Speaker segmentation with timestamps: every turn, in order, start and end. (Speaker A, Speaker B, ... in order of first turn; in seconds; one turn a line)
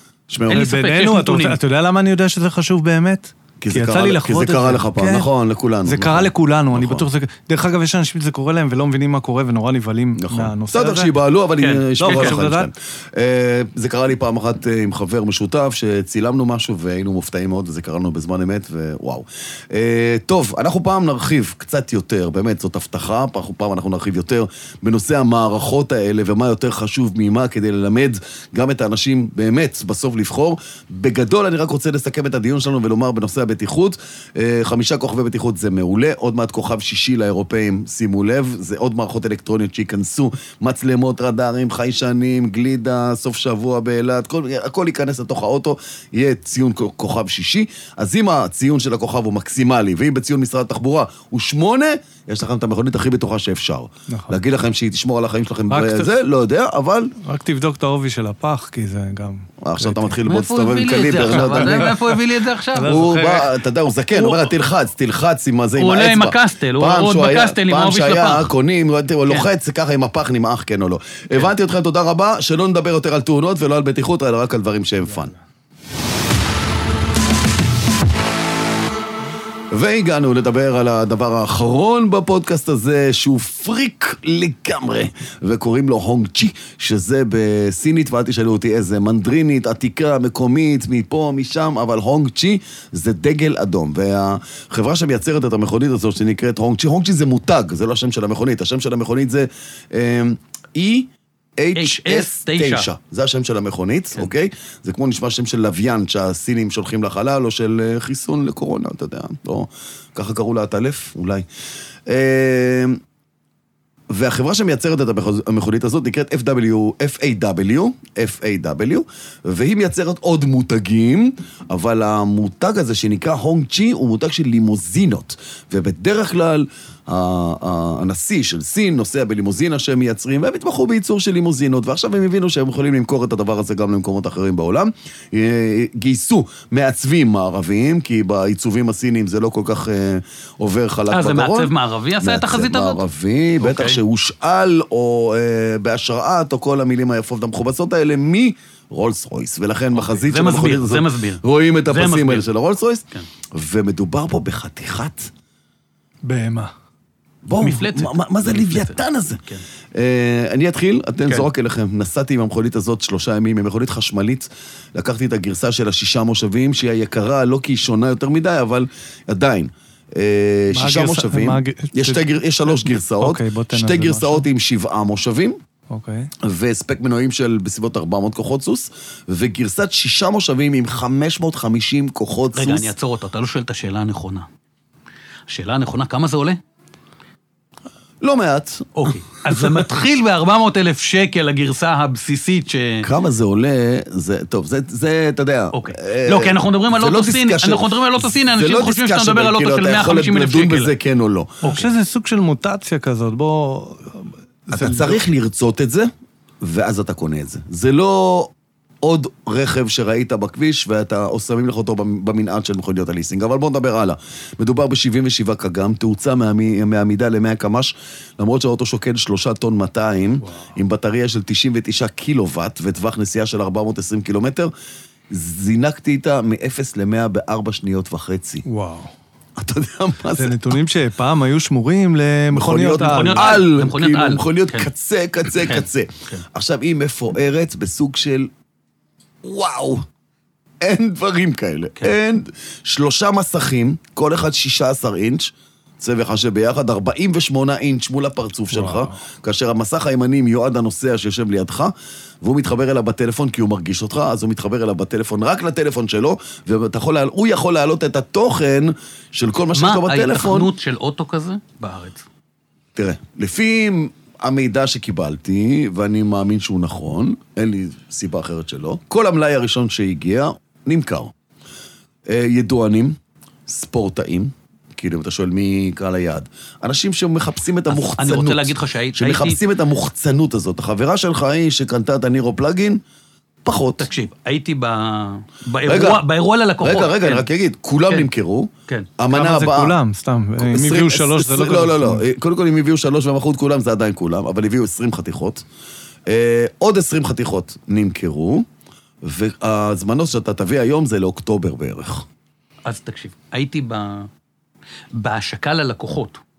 Speaker A: 0.3-0.7
Speaker B: 0.5-1.6
Speaker C: 0.5-5.3
Speaker A: 3.6-7.0
Speaker C: 5.8-11.1
Speaker A: 10.2-57.1
Speaker B: 11.6-12.4
Speaker C: 12.0-12.7
Speaker C: 54.1-54.4
Speaker C: 55.7-56.1
Speaker C: 57.2-60.1
Speaker A: 59.6-61.9
Speaker B: 60.2-63.0
Speaker C: 61.2-62.2
Speaker C: 62.7-63.5
Speaker A: 62.8-75.3
Speaker B: 64.1-64.5
Speaker B: 65.8-68.5
Speaker A: 79.7-111.4
Speaker B: 101.8-102.9
Speaker A: 112.0-113.0
Speaker A: 114.1-155.3
Speaker B: 141.1-143.0
Speaker B: 143.6-144.0
Speaker B: 149.9-152.5
Speaker C: 156.2-156.7
Speaker A: 157.4-175.6
Speaker B: 157.6-159.6
Speaker C: 170.7-172.3
Speaker C: 172.8-174.4
Speaker C: 175.9-176.3
Speaker A: 176.4-182.9
Speaker B: 182.5-184.5
Speaker B: 185.5-186.6
Speaker A: 188.2-189.6
Speaker B: 188.9-193.1
Speaker A: 193.0-201.6
Speaker B: 195.7-200.9
Speaker B: 201.6-201.9
Speaker C: 201.6-205.2
Speaker A: 204.7-206.1
Speaker A: 206.6-224.7
Speaker A: 225.3-228.6
Speaker C: 228.6-229.1
Speaker A: 229.6-230.7
Speaker C: 230.3-233.5
Speaker A: 232.5-238.5
Speaker B: 233.0-234.9
Speaker B: 235.6-236.4
Speaker A: 239.4-240.0
Speaker A: 240.8-260.7
Speaker C: 248.7-249.2
Speaker B: 259.7-262.2
Speaker A: 262.9-271.3
Speaker A: 272.3-273.1
Speaker A: 273.7-283.0
Speaker B: 277.9-279.6
Speaker A: 283.6-284.1
Speaker B: 283.9-287.4
Speaker A: 285.8-286.2
Speaker A: 286.8-289.9
Speaker C: 289.3-292.2
Speaker A: 290.6-295.6
Speaker A: 296.3-298.6
Speaker A: 299.2-302.2
Speaker B: 302.9-304.3
Speaker B: 305.1-306.4